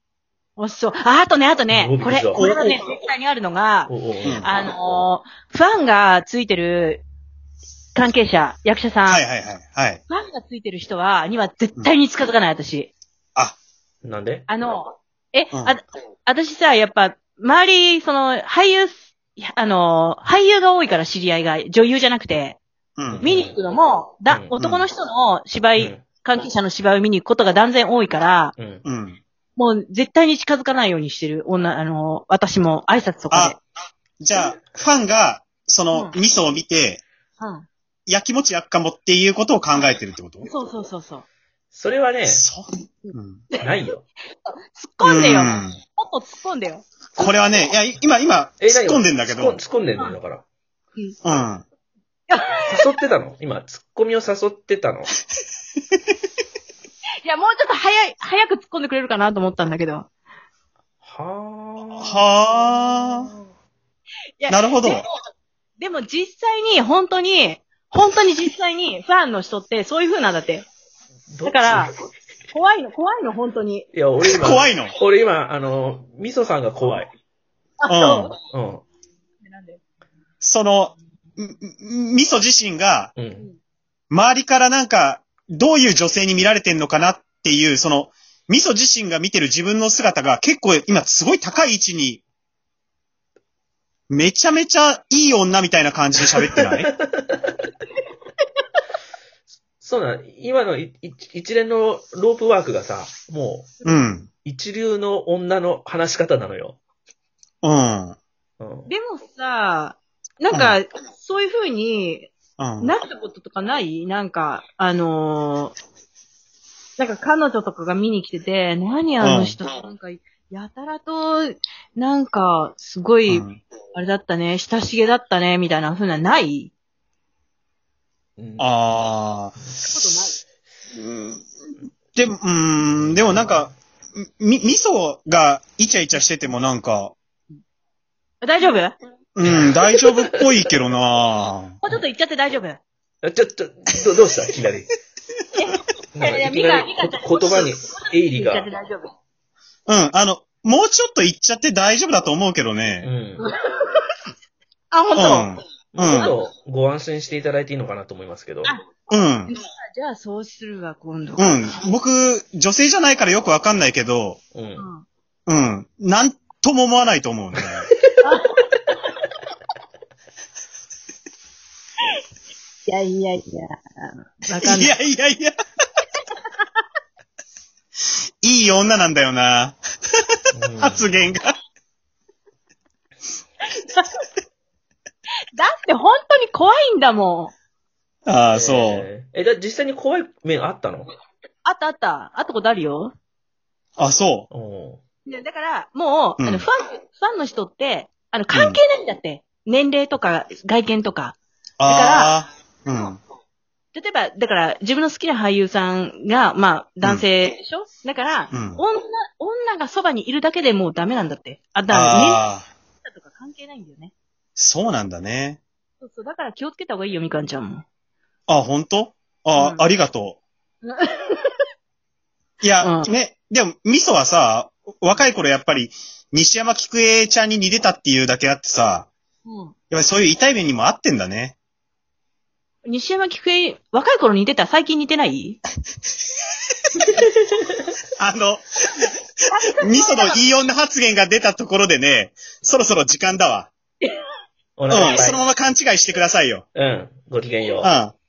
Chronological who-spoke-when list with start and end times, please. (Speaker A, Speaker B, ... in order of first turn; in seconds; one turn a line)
Speaker A: 0.6-7.0
Speaker B: 1.7-2.4
Speaker C: 2.4-2.8
Speaker B: 3.9-4.5
Speaker A: 8.0-9.2
Speaker C: 9.1-10.0
Speaker A: 10.1-12.9
Speaker B: 14.0-14.5
Speaker A: 14.5-22.6
Speaker C: 15.5-15.8
Speaker C: 23.0-23.3
Speaker B: 23.1-23.6
Speaker A: 23.2-28.5
Speaker C: 24.6-24.9
Speaker B: 25.8-26.0
Speaker B: 28.6-28.8
Speaker C: 28.9-29.2
Speaker A: 29.6-33.6
Speaker C: 33.3-33.6
Speaker C: 34.2-37.0
Speaker A: 37.4-37.7
Speaker C: 38.1-40.5
Speaker A: 40.4-41.2
Speaker B: 41.7-42.5
Speaker C: 42.3-43.4
Speaker A: 43.0-43.9
Speaker B: 43.6-44.0
Speaker A: 44.7-46.9
Speaker C: 45.0-45.8
Speaker C: 47.1-49.6
Speaker B: 48.6-50.4
Speaker C: 51.2-51.6
Speaker A: 52.3-52.8
Speaker B: 52.6-55.1
Speaker A: 57.2-60.1
Speaker B: 61.0-62.3
Speaker C: 62.0-63.3
Speaker B: 63.0-63.3
Speaker A: 64.4-65.0
Speaker C: 64.5-65.0
Speaker A: 65.8-70.7
Speaker B: 71.3-71.9
Speaker A: 71.5-71.9
Speaker A: 72.5-73.9
Speaker B: 73.9-77.1
Speaker C: 74.3-75.0
Speaker A: 77.8-78.3
Speaker C: 77.9-78.3
Speaker B: 78.5-78.8
Speaker A: 79.4-79.8
Speaker C: 80.4-83.1
Speaker B: 83.2-83.5
Speaker C: 84.1-92.2
Speaker C: 94.1-96.9
Speaker B: 96.3-97.6
Speaker B: 99.8-103.8
Speaker C: 103.8-104.3
Speaker B: 104.4-106.8
Speaker C: 107.6-108.2
Speaker B: 108.6-108.9
Speaker A: 108.9-115.7
Speaker C: 110.5-110.8
Speaker C: 112.6-112.9
Speaker A: 117.0-126.7
Speaker C: 119.2-119.6
Speaker C: 123.3-123.6
Speaker B: 128.4-128.7
Speaker C: 128.6-129.6
Speaker A: 129.9-130.4
Speaker C: 130.9-131.5
Speaker C: 132.2-137.1
Speaker B: 133.0-133.6
Speaker A: 138.4-138.9
Speaker C: 139.4-141.8
Speaker B: 139.4-140.6
Speaker A: 141.8-142.8
Speaker B: 143.2-144.9
Speaker A: 145.5-149.1
Speaker B: 146.1-148.7
Speaker C: 149.9-153.1
Speaker B: 153.0-153.5
Speaker A: 153.4-154.0
Speaker A: 154.9-155.5
Speaker C: 155.2-156.3
Speaker B: 155.9-158.7
Speaker C: 159.1-159.5
Speaker A: 159.5-161.7
Speaker C: 161.4-164.4
Speaker B: 164.5-164.9
Speaker A: 164.8-165.1
Speaker C: 165.5-167.9
Speaker B: 167.6-168.2
Speaker A: 168.2-168.6
Speaker A: 172.9-174.9
Speaker C: 174.6-175.6
Speaker C: 178.4-179.8
Speaker B: 180.5-181.1
Speaker C: 180.8-181.5
Speaker A: 183.7-184.1
Speaker A: 185.6-187.5
Speaker C: 188.3-189.1
Speaker B: 188.5-191.1
Speaker A: 191.7-193.1
Speaker C: 194.0-194.5
Speaker B: 194.5-195.0
Speaker A: 195.2-202.3
Speaker C: 196.4-196.7
Speaker C: 198.5-198.8
Speaker C: 201.8-203.2
Speaker A: 203.9-212.4
Speaker C: 208.5-208.8
Speaker C: 211.9-212.7
Speaker A: 213.0-214.1
Speaker C: 214.6-215.6
Speaker A: 216.0-217.8
Speaker C: 218.5-220.4
Speaker A: 219.6-219.9
Speaker A: 220.8-221.6
Speaker C: 222.6-229.1
Speaker A: 222.8-223.1
Speaker A: 229.4-229.7
Speaker C: 229.9-231.6
Speaker A: 232.8-235.6
Speaker B: 237.0-237.8
Speaker C: 238.2-238.6
Speaker A: 239.5-240.4
Speaker C: 239.8-243.7
Speaker B: 244.8-245.4
Speaker C: 244.9-246.7
Speaker B: 246.8-247.9
Speaker C: 247.8-248.1